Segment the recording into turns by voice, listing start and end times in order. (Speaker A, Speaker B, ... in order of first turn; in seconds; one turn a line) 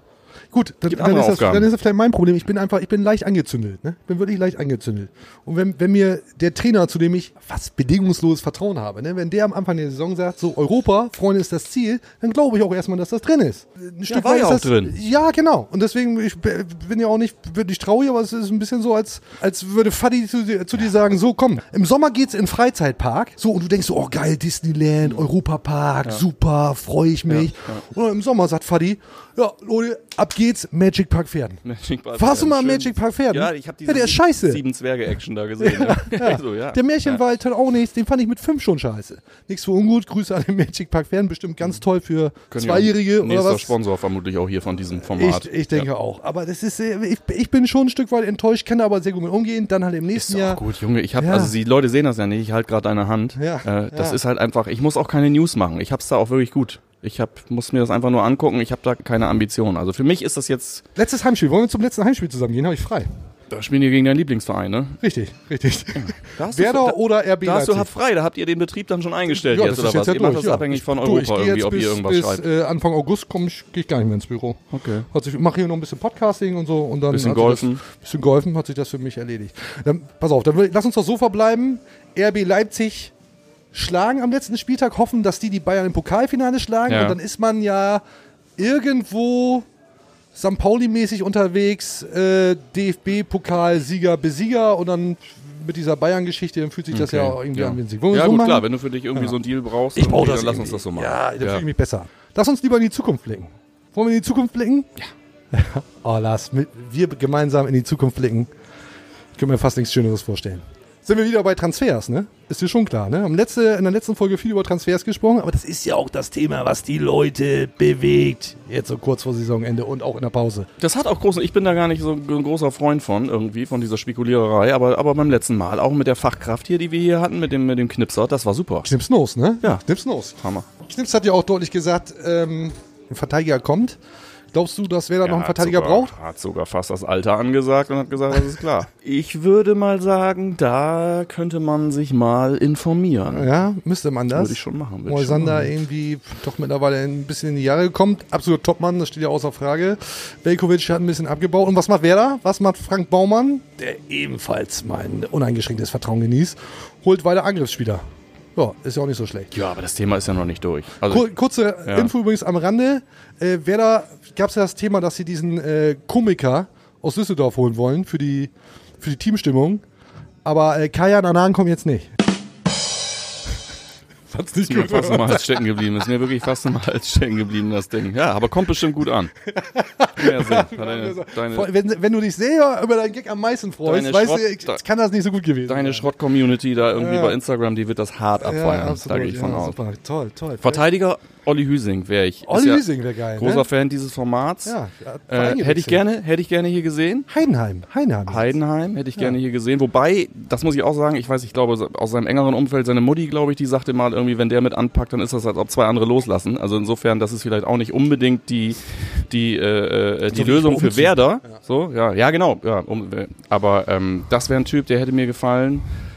Speaker A: 0.5-31.6
Speaker B: 0.9-1.7
Speaker B: 14.1-14.9
Speaker B: 27.3-27.8
Speaker B: 31.6-37.2
Speaker A: 32.2-34.6
Speaker A: 35.6-43.7
Speaker B: 42.5-45.9
Speaker A: 45.1-50.6
Speaker B: 50.1-60.8
Speaker A: 51.2-51.5
Speaker A: 53.4-54.2
Speaker A: 61.0-63.1
Speaker B: 63.5-65.0
Speaker A: 65.0-67.9
Speaker B: 66.0-72.4
Speaker A: 69.3-74.6
Speaker B: 74.7-75.1
Speaker A: 75.1-83.1
Speaker B: 77.1-77.8
Speaker A: 83.7-88.0
Speaker B: 86.9-87.2
Speaker A: 88.6-89.7
Speaker A: 90.3-99.3
Speaker B: 96.9-101.6
Speaker A: 100.0-104.9
Speaker A: 105.5-108.5
Speaker A: 109.4-120.7
Speaker B: 120.8-128.9
Speaker A: 128.8-134.0
Speaker B: 130.4-130.7
Speaker A: 134.5-136.1
Speaker B: 135.2-143.5
Speaker A: 143.3-158.0
Speaker B: 144.3-145.7
Speaker A: 158.6-159.5
Speaker B: 159.5-161.3
Speaker A: 161.1-169.8
Speaker B: 161.8-162.1
Speaker A: 170.4-172.1
Speaker A: 174.3-175.6
Speaker B: 174.7-179.3
Speaker A: 179.5-186.1
Speaker B: 180.2-181.7
Speaker B: 183.8-184.8
Speaker B: 185.7-189.8
Speaker A: 186.9-187.4
Speaker A: 188.4-190.8
Speaker B: 190.6-194.7
Speaker A: 192.5-193.6
Speaker A: 194.6-196.0
Speaker B: 195.3-197.3
Speaker A: 197.3-198.5
Speaker B: 198.3-215.8
Speaker A: 210.3-211.5